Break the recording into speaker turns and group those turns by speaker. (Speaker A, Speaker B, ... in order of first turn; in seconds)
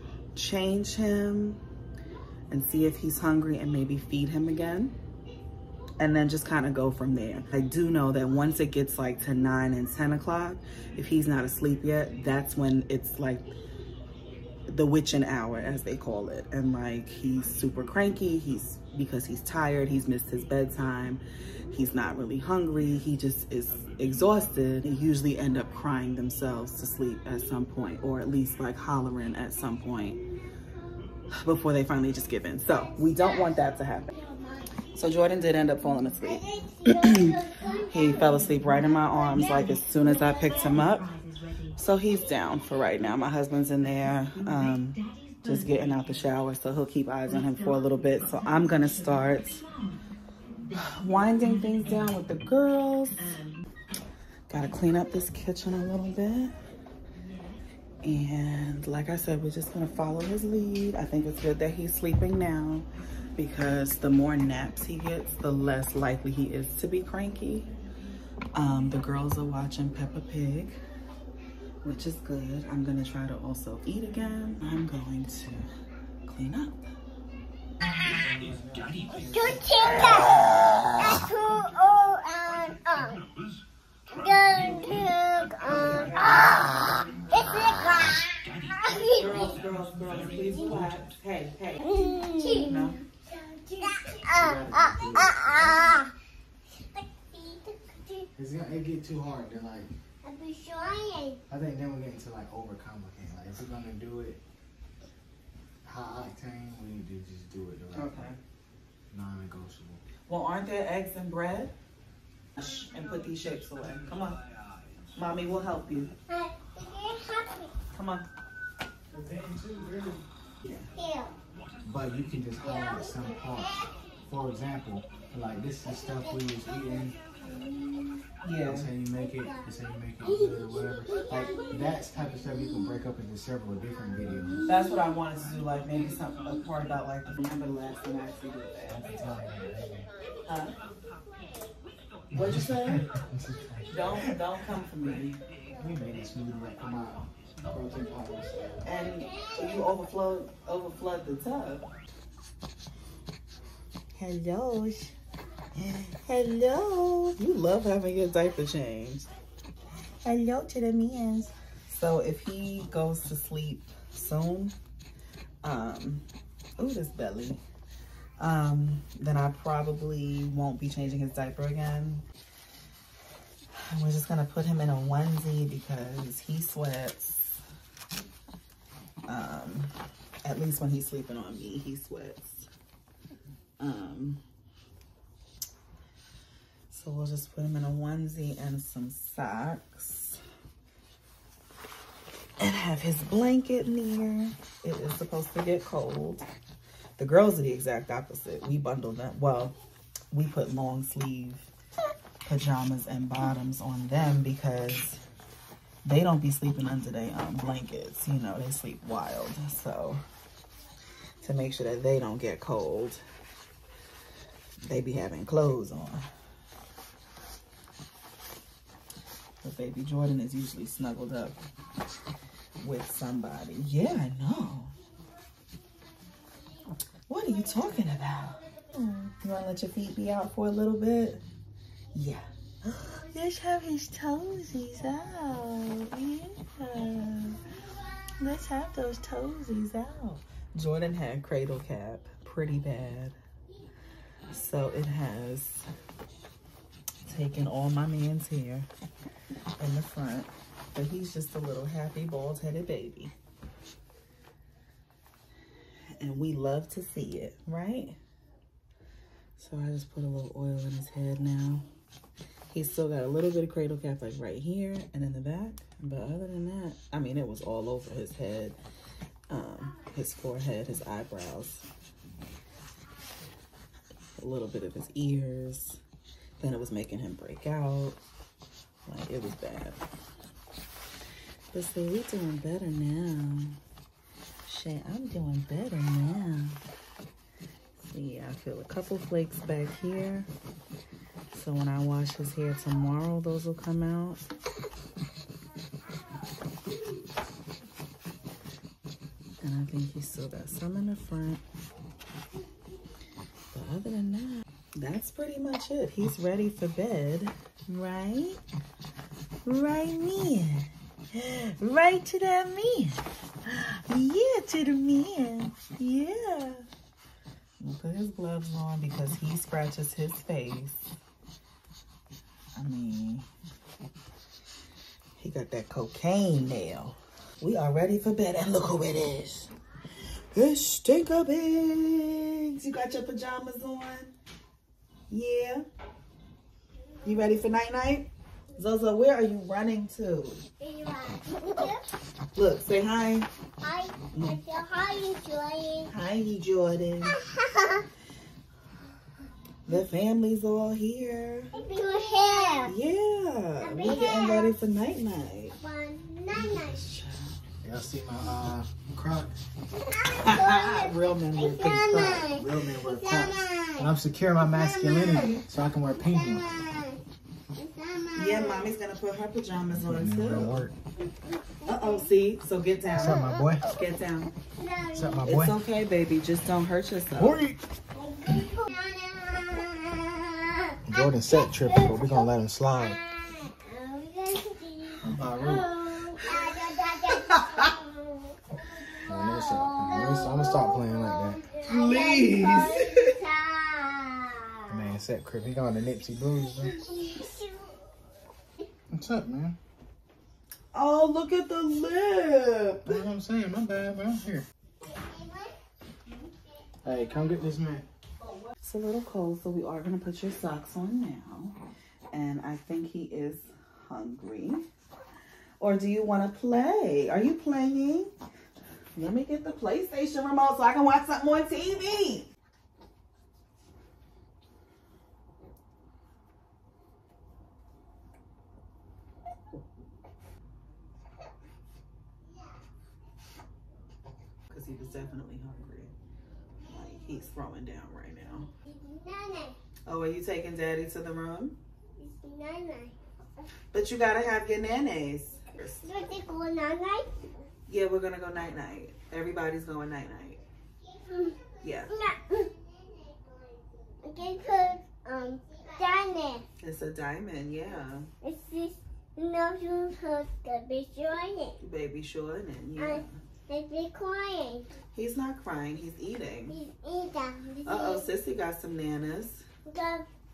Speaker A: 0.3-1.6, 2.5-4.9, 6.0-13.4, 14.7-30.2, 31.3-34.1, 34.9-37.4, 37.9-41.1, 41.8-49.7, 50.7-53.4, 54.5-56.5, 58.0-67.7, 68.5-70.8, 71.8-75.7, 76.2-76.9, 85.6-87.5, 88.8-93.0, 107.9-108.4, 110.3-111.7, 112.6-114.4, 115.1-116.1, 117.9-118.3, 120.6-120.9, 128.4-128.9, 134.7-139.1, 140.5-140.7, 142.3-143.1, 143.9-145.4, 148.8-151.9, 154.1-155.1, 155.8-159.3, 160.2-164.8, 165.6-167.6, 168.4-172.2, 173.7-177.6, 179.3-182.7, 183.8-184.4, 186.9-190.4, 192.6-196.4, 197.2-199.8, 200.3-201.7, 202.4-205.2, 206.0-210.2, 211.4-213.2, 214.9-216.2, 219.6-221.6, 222.8-224.9, 227.3-231.4, 232.1-237.6, 238.4-243.4, 244.4-245.9, 247.2-248.9, 249.8-253.3, 256.1-258.2, 259.6-261.9, 262.7-268.8, 269.5-271.9, 274.4-276.0, 276.6-278.2, 279.1-280.0, 281.7-283.8, 284.6-286.8, 288.0-290.5, 291.5-294.4, 299.6-301.6, 303.7-308.6, 309.6-316.9, 317.8-321.1, 322.8-323.5, 325.4-329.7, 330.5-334.3, 335.3-335.9, 337.2-340.6, 342.6-343.5, 344.3-344.6, 346.1-347.4, 349.9-351.7, 352.9-355.8, 356.5-357.6, 360.2-362.6, 368.3-370.8, 371.8-374.5, 375.5-377.6, 386.3-387.9, 391.8-393.4, 400.9-403.2, 408.5-411.8, 412.3-414.9, 415.8-418.3, 419.1-422.5, 434.7-436.1, 436.9-438.7, 440.1-441.8, 443.9-446.1, 447.9-450.6, 451.8-452.1, 456.8-458.3, 461.8-463.4, 465.1-466.8, 467.9-469.6
Speaker B: 34.1-34.7, 36.2-38.2, 79.3-83.2, 84.2-86.7, 87.3-89.5, 91.8-96.1, 96.9-98.3, 100.2-101.4, 116.3-117.7, 121.0-121.3, 122.6-123.8, 126.4-128.2, 130.2-132.0, 149.2-149.6, 340.8-342.1, 343.8-346.1, 347.3-348.1, 351.7-352.9, 353.8-354.8, 355.8-357.0, 360.0-365.6, 366.1-367.2, 367.8-368.9, 371.8-372.3, 373.2-373.6, 374.8-375.5, 378.1-382.5, 383.0-395.1, 396.8-398.0, 405.0-405.8, 438.9-439.8, 442.2-443.1, 446.0-447.4, 451.1-453.4, 454.2-456.6, 458.4-461.8, 463.0-464.9, 466.7-468.2, 469.9-470.3
Speaker C: 78.1-79.9, 94.3-95.9, 98.4-99.9, 101.5-104.4, 105.8-108.3, 109.1-110.0, 119.1-120.2, 121.8-127.2, 128.7-134.6, 138.9-140.1, 142.3-144.4, 145.7-148.9, 357.8-359.6, 362.5-366.8, 369.9-370.9, 373.1-373.9, 375.1-375.8, 377.4-377.8, 381.1-383.2, 385.2-385.9, 389.2-391.6, 394.9-397.0, 399.1-399.8, 403.1-404.7, 407.0-408.1